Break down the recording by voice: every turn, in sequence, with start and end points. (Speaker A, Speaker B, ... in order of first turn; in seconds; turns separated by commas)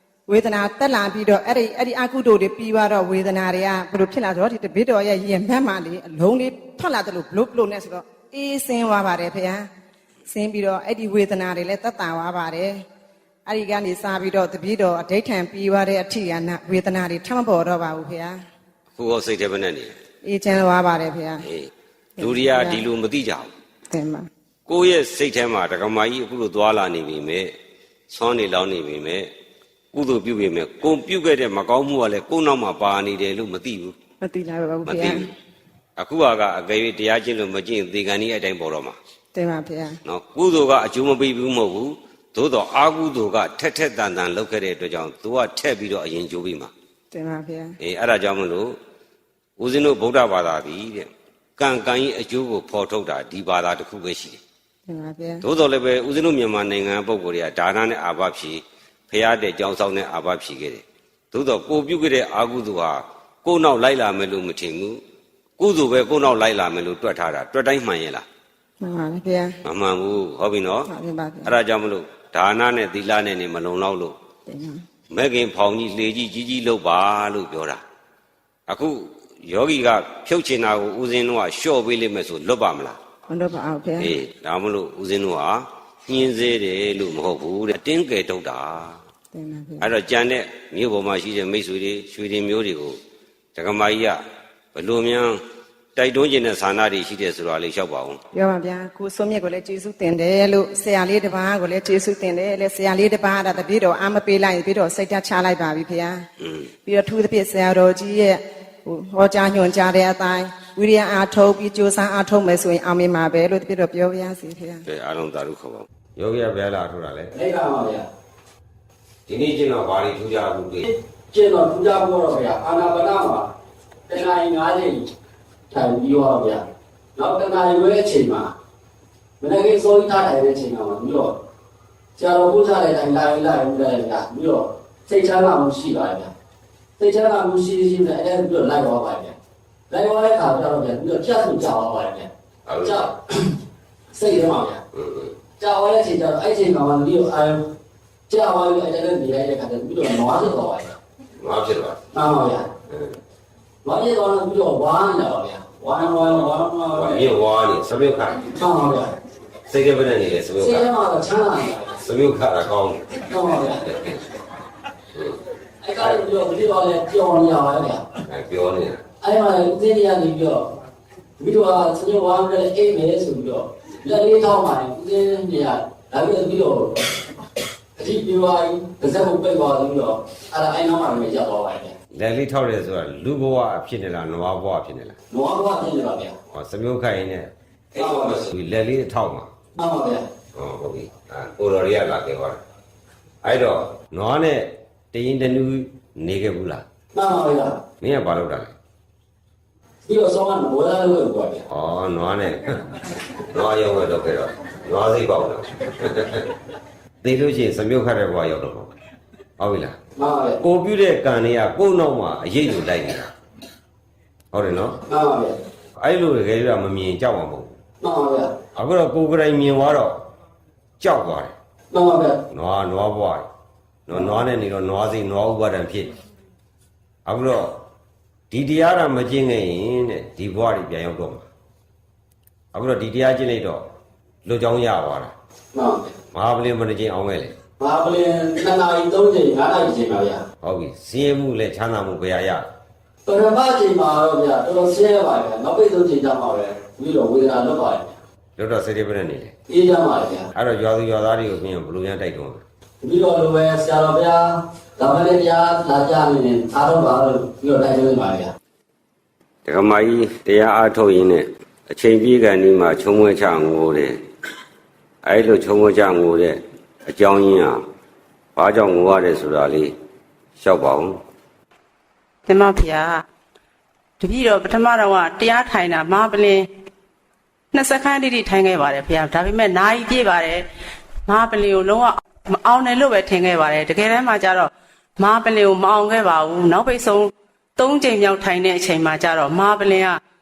Speaker A: 0.3-9.7, Speaker A: 10.3-12.8, Speaker A: 13.4-18.4, Speaker B: 18.9-19.9, Speaker A: 20.2-21.4, Speaker B: 21.4-23.5, Speaker A: 22.2-22.9, Speaker A: 23.9-24.3, Speaker B: 24.7-27.5, Speaker B: 28.1-29.3, Speaker B: 29.9-33.9, Speaker A: 34.2-35.3, Speaker B: 34.9-35.3, Speaker B: 36.0-39.0, Speaker A: 39.3-40.0, Speaker B: 40.0-46.7, Speaker A: 47.1-47.7, Speaker B: 47.8-48.8, Speaker B: 49.6-54.4, Speaker A: 54.9-55.4, Speaker B: 55.4-65.0, Speaker B: 65.6-68.2, Speaker A: 68.8-69.6, Speaker B: 69.6-70.9, Speaker A: 70.9-71.5, Speaker B: 71.4-74.1, Speaker A: 74.5-74.8, Speaker B: 75.1-77.8, Speaker B: 78.7-83.0, Speaker A: 83.3-84.1, Speaker B: 84.0-89.0, Speaker A: 89.3-89.9, Speaker B: 89.8-93.0, Speaker B: 93.5-94.2, Speaker B: 94.7-95.4, Speaker B: 96.0-98.2, Speaker A: 98.3-106.2, Speaker A: 106.8-114.8, Speaker B: 114.8-117.3, Speaker C: 117.3-118.1, Speaker B: 119.3-120.8, Speaker C: 121.3-123.5, Speaker C: 124.1-125.1, Speaker C: 125.7-126.6, Speaker C: 127.2-128.5, Speaker C: 129.4-131.3, Speaker C: 132.2-136.3, Speaker C: 137.0-139.3, Speaker C: 139.9-142.3, Speaker B: 142.7-143.0, Speaker C: 142.8-143.6, Speaker C: 144.1-144.8, Speaker B: 144.9-145.3, Speaker C: 145.6-147.7, Speaker C: 148.3-150.9, Speaker B: 151.4-152.0, Speaker C: 152.1-152.7, Speaker B: 152.9-153.1, Speaker C: 153.8-157.4, Speaker B: 156.9-158.5, Speaker C: 158.5-159.2, Speaker B: 159.7-160.9, Speaker C: 160.6-162.0, Speaker B: 162.0-163.2, Speaker C: 163.3-163.9, Speaker B: 163.9-164.2, Speaker B: 165.1-165.4, Speaker C: 165.8-168.0, Speaker B: 168.2-169.0, Speaker C: 169.2-170.7, Speaker C: 171.4-177.0, Speaker C: 178.0-181.9, Speaker B: 182.1-185.1, Speaker C: 185.3-186.3, Speaker B: 186.5-189.5, Speaker C: 187.9-188.4, Speaker C: 189.8-190.3, Speaker B: 190.5-192.6, Speaker B: 193.4-196.8, Speaker C: 197.1-197.8, Speaker B: 198.0-198.7, Speaker C: 200.0-201.6, Speaker B: 201.7-206.4, Speaker B: 207.2-208.9, Speaker B: 209.6-209.9, Speaker C: 210.2-210.6, Speaker B: 210.6-213.3, Speaker B: 214.5-215.0, Speaker C: 215.1-215.6, Speaker B: 216.0-217.7, Speaker C: 218.0-218.5, Speaker B: 218.7-220.2, Speaker B: 221.0-221.5, Speaker C: 221.9-222.4, Speaker B: 222.5-223.5, Speaker B: 224.1-226.1, Speaker B: 227.2-227.7, Speaker B: 228.5-231.4, Speaker B: 232.7-233.8, Speaker B: 234.4-235.3, Speaker C: 235.7-236.1, Speaker B: 236.3-237.6, Speaker C: 237.8-240.4, Speaker B: 240.6-242.7, Speaker C: 243.2-248.1, Speaker B: 248.6-249.5, Speaker C: 249.7-250.5, Speaker B: 250.5-252.6, Speaker C: 253.0-258.5, Speaker B: 259.6-264.2, Speaker B: 265.2-267.8, Speaker B: 268.6-269.9, Speaker B: 270.6-271.2, Speaker D: 272.5-273.2, Speaker D: 274.2-276.7, Speaker D: 277.7-280.6, Speaker D: 281.3-290.2